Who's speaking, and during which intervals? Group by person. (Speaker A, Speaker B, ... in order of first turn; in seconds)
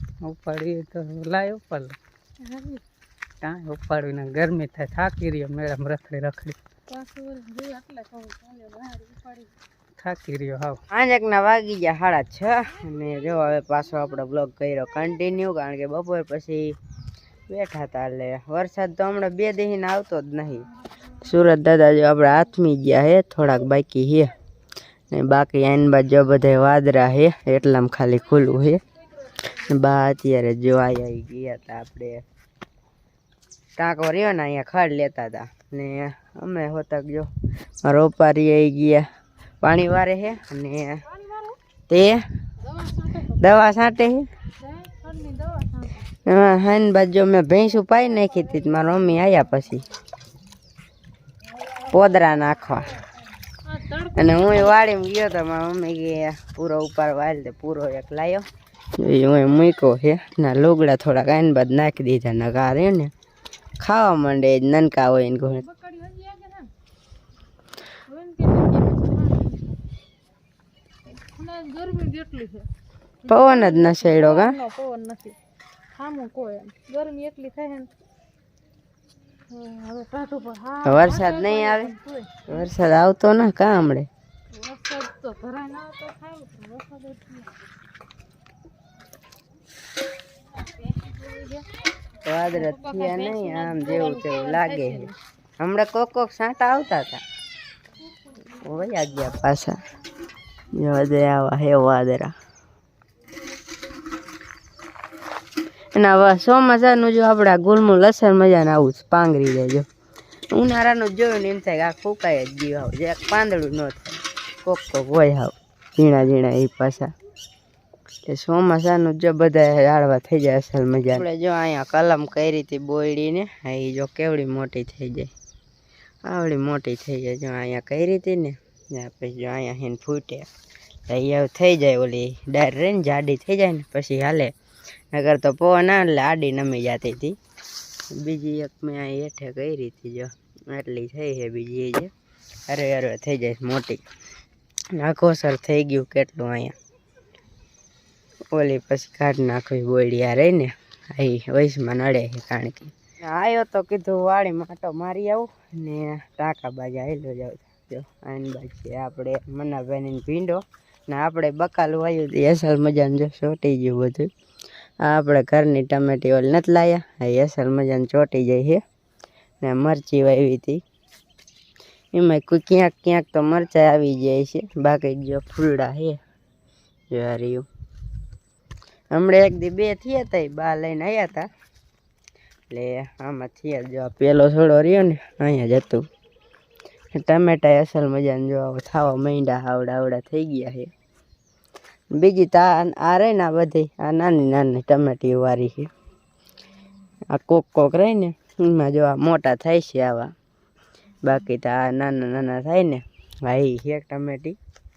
Speaker A: 0.2-2.0, 3.4-6.6, 10.0-10.8
Speaker B: 2.4-2.8, 6.9-9.5, 41.1-41.5, 42.6-43.4, 44.6-46.1, 53.6-54.8, 65.5-66.7, 68.1-69.8, 71.3-72.7, 73.2-75.3, 75.9-77.9, 79.5-82.7, 84.5-87.6, 90.5-91.7, 92.5-95.1
Speaker C: 10.9-16.8, 17.5-20.6, 21.2-24.3, 25.1-28.8, 29.5-32.2, 33.8-37.3, 37.8-39.0, 39.6-41.0, 41.9-42.2, 43.4-44.3, 46.2-49.9, 51.9-52.9, 54.1-58.5, 59.0-63.1, 63.8-65.6, 73.3-74.6, 80.8-81.9, 82.5-84.1, 92.2-95.1, 95.6-97.2, 98.6-99.8, 100.7-102.3, 106.0-109.8, 110.5-117.1, 118.2-125.3, 126.2-130.5, 131.1-134.5, 135.1-137.3, 138.1-142.1, 142.7-144.0, 144.9-146.7, 148.5-164.3, 165.0-168.8, 169.6-170.8, 172.1-176.2, 177.1-177.7, 179.1-181.5, 182.7-186.0, 187.1-190.9, 192.1-195.9, 197.3-200.3, 201.2-204.6